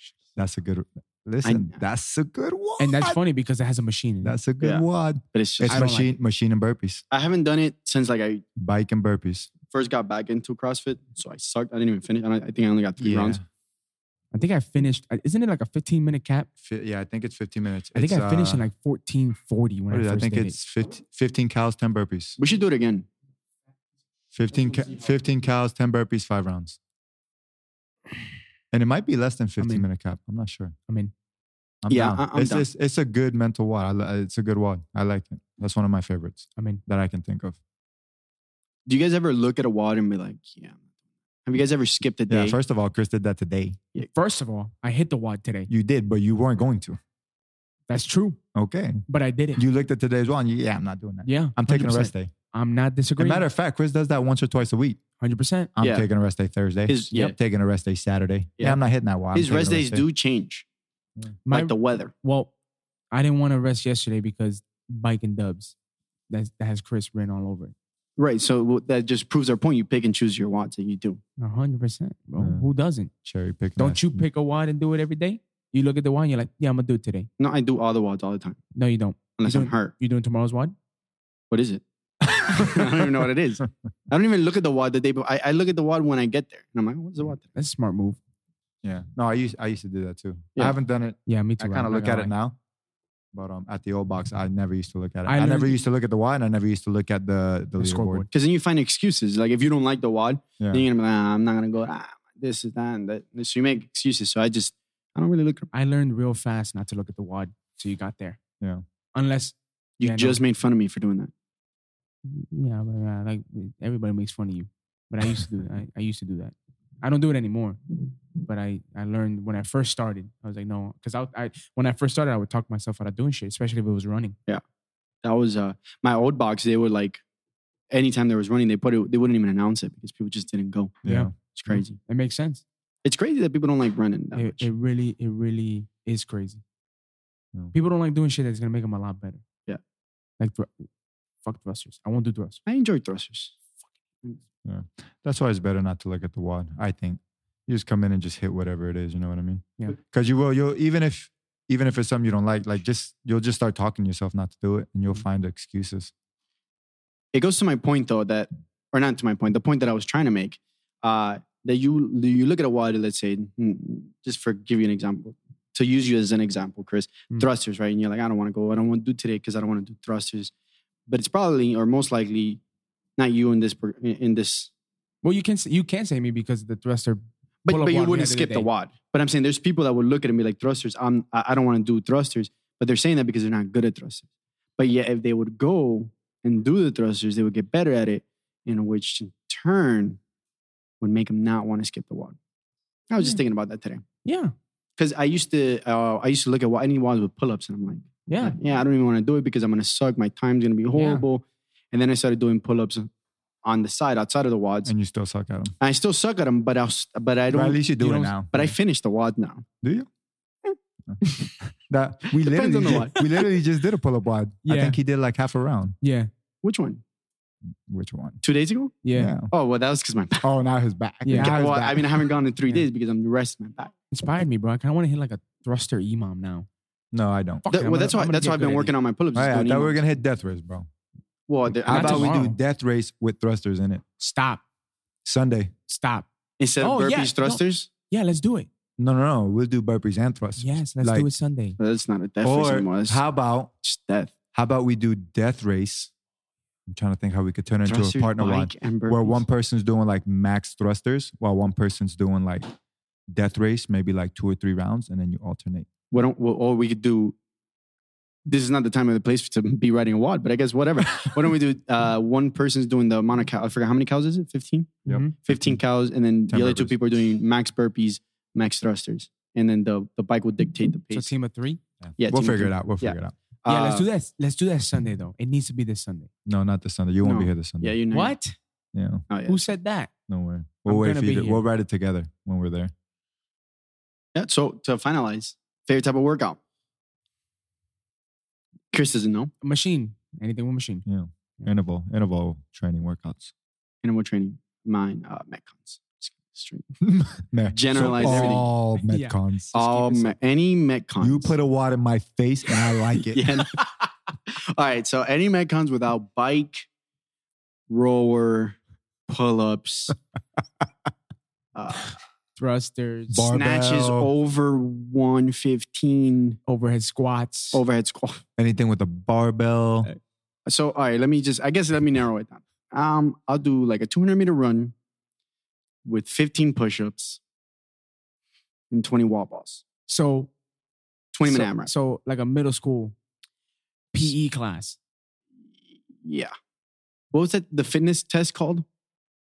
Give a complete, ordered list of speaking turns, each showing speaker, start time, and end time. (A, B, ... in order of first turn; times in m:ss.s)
0:00.4-0:03.2 A
0:01.4-0:01.8 B
0:02.8-0:04.4 C
0:04.2-0:07.0 A
0:04.6-0:05.9 B
0:05.7-0:06.1 C
0:07.1-0:08.4 B
0:08.6-0:09.5 A
0:09.7-0:13.4 B
0:13.0-0:13.4 A
0:14.3-0:16.5 C
0:16.6-0:18.6 A
0:18.0-0:20.6 C
0:19.9-0:22.4 A
0:22.4-0:23.1 B
0:24.3-0:26.8 A
0:28.7-0:30.8 A
0:29.6-0:29.8 C
0:31.8-0:37.6 A
0:31.9-0:32.6 B
0:36.6-0:36.8 C
0:38.9-0:40.8 B
0:41.5-0:42.6 B
0:42.3-0:43.8 A
0:44.1-0:45.7 C
0:45.7-0:47.0 A
0:47.9-0:48.4 C
0:48.6-0:49.0 A
0:49.1-0:49.6 C
0:49.6-0:52.3 A
0:51.2-0:53.4 C
0:53.2-0:55.0 A
0:55.2-0:55.7 C
0:55.8-1:00.0 A
0:55.8-0:56.1 B
0:56.9-0:57.4 B
0:59.3-1:00.6 B
1:01.4-1:02.5 C
1:01.5-1:02.1 B
1:03.1-1:05.8 C
1:06.3-1:07.7 C
1:08.2-1:11.2 B
1:11.4-1:13.1 C
1:12.4-1:12.7 A
1:13.2-1:14.2 A
1:13.8-1:17.3 C
1:17.4-1:18.6 B
1:18.8-1:20.8 C
1:19.4-1:19.9 B
1:21.5-1:21.8 B
1:22.2-1:23.1 A
1:22.4-1:27.5 B
1:27.6-1:28.2 C
1:28.8-1:32.6 A
1:31.3-1:32.3 C
1:33.3-1:38.3 A
1:35.3-1:35.8 C
1:37.8-1:38.3 C
1:38.3-1:45.7 B
1:40.6-1:40.8 A
1:45.7-1:48.4 C
1:49.2-1:50.4 C
1:50.0-1:51.3 B
1:52.2-1:57.8 C
1:58.4-2:04.4 C
2:05.2-2:07.2 B
2:07.9-2:11.0 B
2:11.0-2:11.3 A
2:11.0-2:12.6 C
2:11.5-2:12.0 B
2:13.0-2:14.7 B
2:14.3-2:16.6 C
2:17.7-2:19.4 C
2:20.4-2:20.9 C
2:21.4-2:22.6 C
2:22.7-2:23.6 B
2:24.6-2:36.1 A
2:37.3-2:50.5 B
2:51.1-2:52.6 B
2:53.2-2:54.7 B
2:55.2-2:58.7 C
2:57.7-3:04.3 B
3:04.8-3:10.2 B
3:11.0-3:12.4 B
3:13.1-3:14.0 B
3:14.2-3:14.5 C
3:15.0-3:23.1 B
3:18.3-3:18.6 C
3:21.0-3:21.2 C
3:23.6-3:24.9 B
3:24.8-3:25.8 A
3:25.8-3:27.8 B
3:27.5-3:28.7 A
3:28.0-3:28.4 C
3:28.5-3:29.7 B
3:29.8-3:30.1 A
3:31.1-3:36.0 A
3:32.3-3:33.4 B
3:34.6-3:35.0 C
3:36.0-3:36.3 C
3:36.6-3:37.0 B
3:37.9-3:38.4 A
3:38.4-3:40.5 B
3:39.0-3:39.4 C
3:39.1-3:39.5 A
3:40.4-3:42.3 A
3:41.2-3:41.6 C
3:41.3-3:43.9 B
3:44.1-3:46.7 C
3:47.1-3:47.7 A
3:47.6-3:48.9 C
3:47.7-3:50.0 B
3:49.4-3:50.9 A
3:51.5-3:52.4 B
3:51.7-3:54.0 A
3:51.9-3:52.6 C
3:54.2-3:54.6 C
3:55.2-3:55.7 A
3:55.9-3:56.3 C
3:56.6-3:57.9 B
3:56.8-3:58.7 C
3:59.0-4:01.3 A
4:00.6-4:01.8 C
4:01.8-4:03.2 B
4:02.4-4:03.7 A
4:03.8-4:04.3 B
4:04.5-4:06.1 A
4:06.9-4:12.6 A
4:07.8-4:09.4 B
4:13.3-4:15.9 A
4:16.1-4:17.4 B
4:18.5-4:31.3 B
4:25.1-4:25.8 A
4:25.1-4:25.3 C
4:26.5-4:27.0 A
4:31.1-4:31.8 C
4:32.0-4:33.3 A
4:32.2-4:34.1 B
4:33.7-4:36.3 C
4:36.5-4:38.0 A
4:37.2-4:38.4 B
4:38.1-4:38.5 C
4:38.9-4:39.2 A
4:39.3-4:39.6 B
4:39.5-4:40.1 C
4:40.3-4:42.9 A
4:40.9-4:41.6 C
4:44.4-4:46.6 B
4:48.9-4:49.5 B
4:49.6-4:51.0 C
4:51.1-4:53.5 A
4:54.0-4:56.9 B
4:57.0-4:59.8 A
4:57.7-4:58.7 B
4:58.0-5:00.3 C
4:59.7-5:01.5 B
5:01.2-5:03.6 A
5:03.2-5:06.9 B
5:07.9-5:08.8 B
5:09.3-5:10.2 B
5:11.8-5:12.2 B
5:12.6-5:13.5 C
5:13.3-5:14.3 A
5:13.5-5:16.6 B
5:16.7-5:17.8 C
5:17.7-5:18.4 B
5:18.6-5:20.1 A
5:20.7-5:24.9 B
5:26.0-5:27.4 B
5:28.9-5:29.8 B
5:30.1-5:30.5 C
5:31.3-5:31.9 B
5:31.4-5:33.2 C
5:34.1-5:35.0 C
5:36.2-5:36.5 B
5:37.3-5:38.8 B